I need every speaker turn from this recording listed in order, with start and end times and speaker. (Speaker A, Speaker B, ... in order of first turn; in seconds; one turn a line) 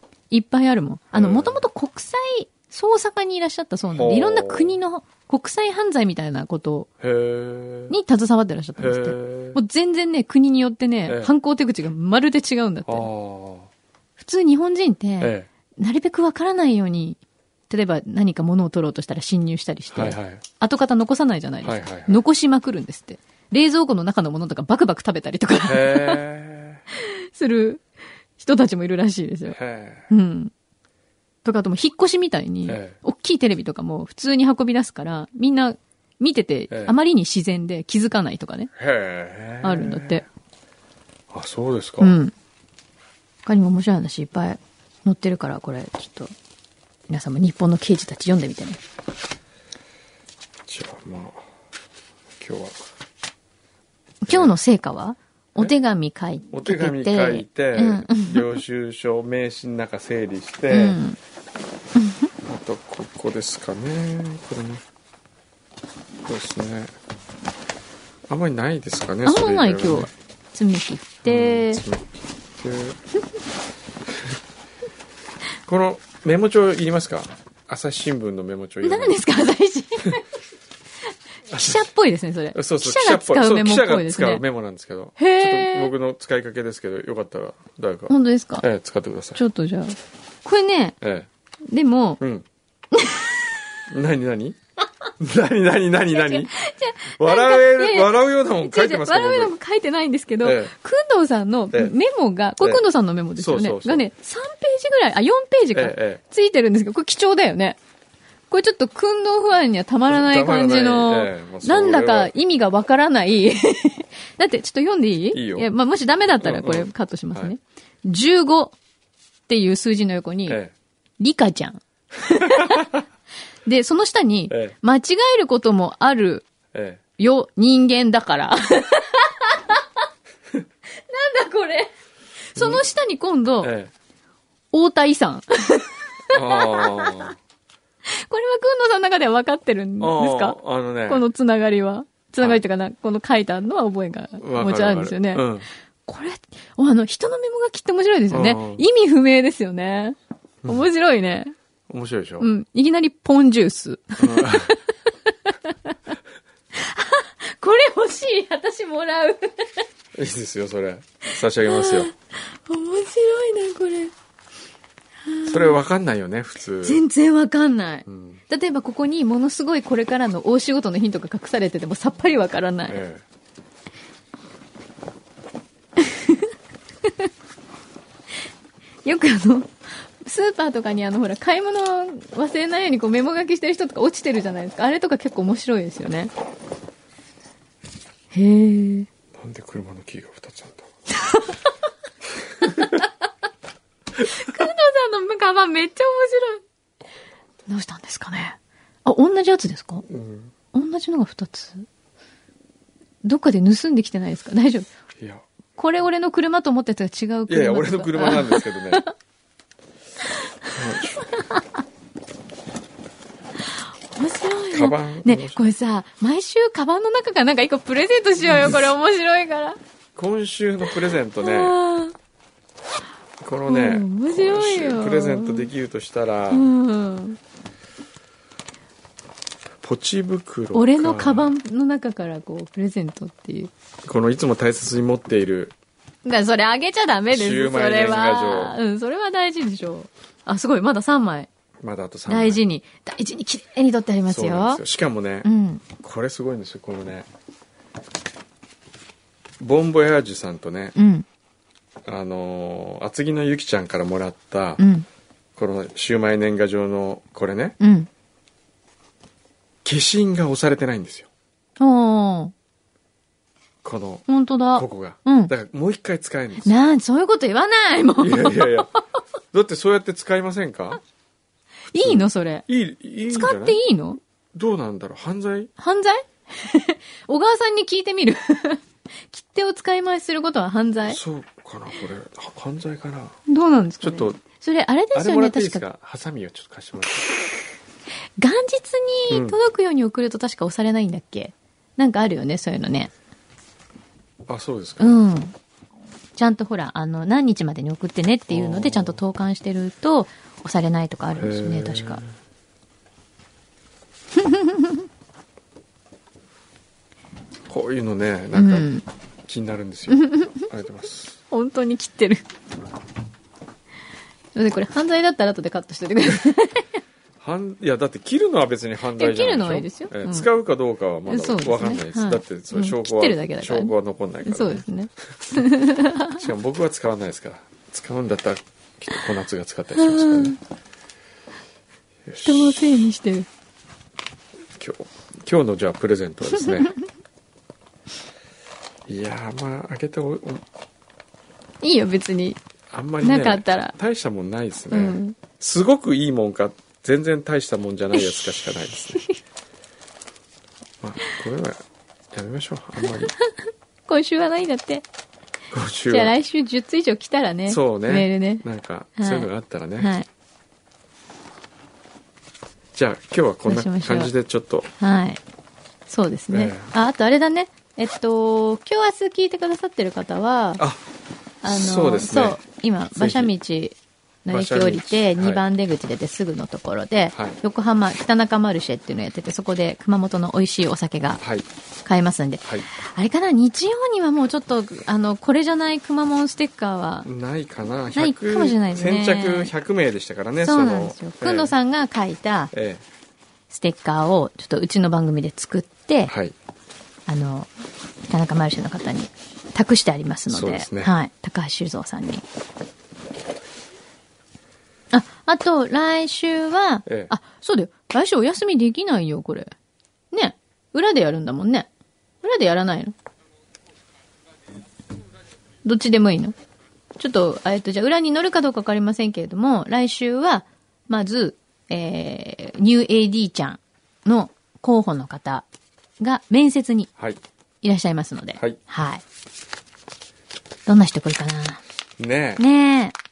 Speaker A: 0.3-6.9
Speaker B: 1.1-1.6
Speaker B: 3.9-4.8
Speaker B: 7.0-8.0
Speaker A: 7.9-13.1
Speaker B: 8.8-9.6
Speaker B: 11.1-11.3
Speaker B: 12.9-13.7
Speaker A: 14.2-26.2
Speaker B: 15.2-15.5
Speaker B: 19.9-20.4
Speaker B: 21.6-22.2
Speaker B: 25.6-26.8
Speaker A: 26.9-27.8
Speaker A: 28.4-29.6
Speaker B: 29.5-30.1
Speaker A: 30.1-30.5
Speaker A: 31.4-38.7
Speaker B: 32.7-33.0
Speaker B: 36.7-37.0
Speaker B: 38.8-40.2
Speaker A: 39.6-40.2
Speaker B: 41.3-42.2
Speaker A: 42.0-42.3
Speaker A: 43.5-46.3
Speaker A: 47.1-48.8
Speaker B: 50.7-51.4
Speaker B: 52.4-52.8
Speaker A: 54.2-58.6
Speaker B: 56.5-61.0
Speaker A: 60.7-61.2
Speaker A: 62.0-62.3
Speaker B: 62.5-64.8
Speaker B: 66.3-66.9
Speaker B: 68.3-70.1
Speaker A: 69.2-71.8
Speaker B: 71.2-73.0
Speaker B: 75.7-79.2
Speaker A: 78.8-80.2
Speaker B: 81.5-81.9
Speaker A: 81.5-84.4
Speaker B: 82.5-89.4
Speaker A: 85.2-85.9
Speaker A: 88.1-88.7
Speaker A: 89.3-91.0
Speaker B: 91.0-91.3
Speaker A: 91.7-92.2
Speaker B: 92.2-92.5
Speaker A: 92.9-93.4
Speaker B: 93.9-94.6
Speaker B: 95.2-96.5
Speaker A: 96.1-107.8
Speaker B: 97.1-99.5
Speaker B: 100.4-100.7
Speaker B: 103.4-104.0
Speaker B: 105.7-106.2
Speaker A: 108.5-118.8
Speaker B: 110.1-112.3
Speaker B: 115.3-115.7
Speaker B: 116.4-117.5
Speaker A: 119.5-120.6
Speaker B: 120.5-120.7
Speaker A: 121.2-122.9
Speaker A: 123.7-126.5
Speaker B: 124.5-124.8
Speaker B: 126.7-127.0
Speaker A: 127.2-129.8
Speaker A: 131.0-131.9
Speaker A: 132.6-133.7
Speaker B: 132.6-132.8
Speaker B: 133.6-133.9
Speaker A: 134.7-137.3
Speaker B: 136.3-137.3
Speaker A: 138.1-145.5
Speaker B: 140.0-141.2
Speaker B: 144.4-145.7
Speaker A: 146.1-151.5
Speaker B: 148.3-148.8
Speaker B: 151.9-152.5
Speaker A: 152.4-154.8
Speaker B: 154.2-154.7
Speaker A: 156.7-159.8
Speaker B: 160.2-162.1
Speaker A: 161.6-164.1
Speaker A: 165.2-165.8
Speaker B: 165.4-167.0
Speaker A: 166.8-173.0
Speaker B: 168.1-168.4
Speaker B: 172.9-173.2
Speaker A: 176.0-176.5
Speaker A: 179.0-186.3
Speaker A: 188.3-189.1
Speaker B: 189.4-190.9
Speaker A: 191.2-191.6
Speaker A: 192.6-193.1
Speaker A: 194.2-196.6
Speaker A: 197.7-200.1
Speaker B: 200.1-200.5
Speaker A: 200.7-201.9
Speaker A: 203.2-204.9
Speaker A: 205.8-209.1
Speaker B: 207.5-209.0
Speaker A: 210.7-211.7
Speaker B: 210.7-211.3
Speaker A: 214.1-219.8
Speaker B: 214.7-215.6
Speaker B: 220.2-221.8
Speaker A: 220.9-222.2
Speaker B: 223.4-226.7
Speaker A: 223.7-225.7
Speaker A: 226.5-227.4
Speaker B: 229.8-231.5
Speaker A: 230.7-233.7
Speaker B: 234.1-235.8
Speaker A: 236.2-241.5
Speaker B: 237.3-238.8
Speaker B: 241.8-242.6
Speaker A: 242.3-244.8
Speaker B: 244.3-247.3
Speaker A: 245.4-245.8
Speaker B: 249.6-250.9
Speaker A: 250.9-251.3
Speaker B: 252.1-254.8
Speaker A: 254.8-255.1
Speaker B: 255.6-257.8
Speaker A: 257.8-258.1
Speaker B: 259.8-261.3
Speaker A: 261.8-262.5
Speaker B: 263.8-266.8
Speaker A: 264.3-265.5
Speaker A: 266.7-269.0
Speaker B: 268.2-268.9
Speaker B: 269.5-271.0
Speaker A: 271.9-272.6
Speaker B: 272.0-273.8
Speaker A: 273.3-274.2
Speaker B: 274.6-275.7
Speaker A: 275.8-281.2
Speaker B: 281.1-283.4
Speaker A: 283.5-285.8
Speaker B: 284.0-284.4
Speaker B: 285.1-287.3
Speaker A: 288.4-293.1
Speaker B: 289.3-289.6
Speaker B: 294.5-295.2
Speaker A: 295.0-295.5
Speaker A: 296.4-302.2
Speaker B: 298.5-299.2
Speaker B: 301.4-302.3
Speaker A: 304.4-305.0
Speaker B: 307.7-308.9
Speaker A: 308.6-309.1
Speaker B: 309.5-311.4
Speaker A: 310.1-310.7
Speaker A: 311.5-312.4
Speaker A: 314.6-316.9
Speaker B: 317.4-324.9
Speaker A: 319.2-320.5
Speaker A: 321.3-326.4
Speaker B: 325.4-325.7
Speaker B: 326.3-330.6
Speaker A: 330.0-330.6
Speaker B: 332.3-333.1
Speaker A: 332.4-333.5
Speaker B: 334.8-336.9
Speaker B: 339.1-340.6
Speaker A: 341.8-342.6
Speaker B: 342.9-349.2
Speaker A: 343.2-343.9
Speaker A: 344.9-345.4
Speaker A: 348.1-349.4
Speaker B: 351.0-353.4
Speaker A: 354.1-355.1
Speaker B: 355.7-356.3
Speaker A: 356.1-358.6
Speaker B: 357.7-360.1
Speaker A: 359.2-360.3
Speaker B: 362.9-364.9
Speaker A: 363.6-364.3
Speaker A: 365.0-365.4
Speaker A: 366.1-370.8
Speaker B: 366.5-366.9
Speaker A: 371.6-381.4
Speaker B: 371.7-372.6
Speaker B: 373.1-373.5
Speaker B: 374.5-375.6
Speaker B: 381.4-381.7
Speaker A: 382.1-387.3
Speaker B: 387.3-391.8
Speaker A: 388.1-389.7
Speaker A: 390.6-392.7
Speaker B: 392.7-393.0
Speaker A: 393.7-396.3
Speaker B: 396.3-396.6
Speaker A: 397.3-397.7
Speaker A: 398.3-402.4
Speaker B: 400.5-401.1
Speaker A: 405.1-409.7
Speaker B: 407.1-407.3
Speaker A: 410.3-411.9
Speaker A: 412.4-413.1
Speaker A: 415.8-416.6
Speaker A: 417.2-425.7
Speaker A: 426.2-427.1
Speaker A: 427.8-429.2
Speaker A: 430.9-431.8
Speaker B: 432.2-432.6
Speaker A: 432.6-433.1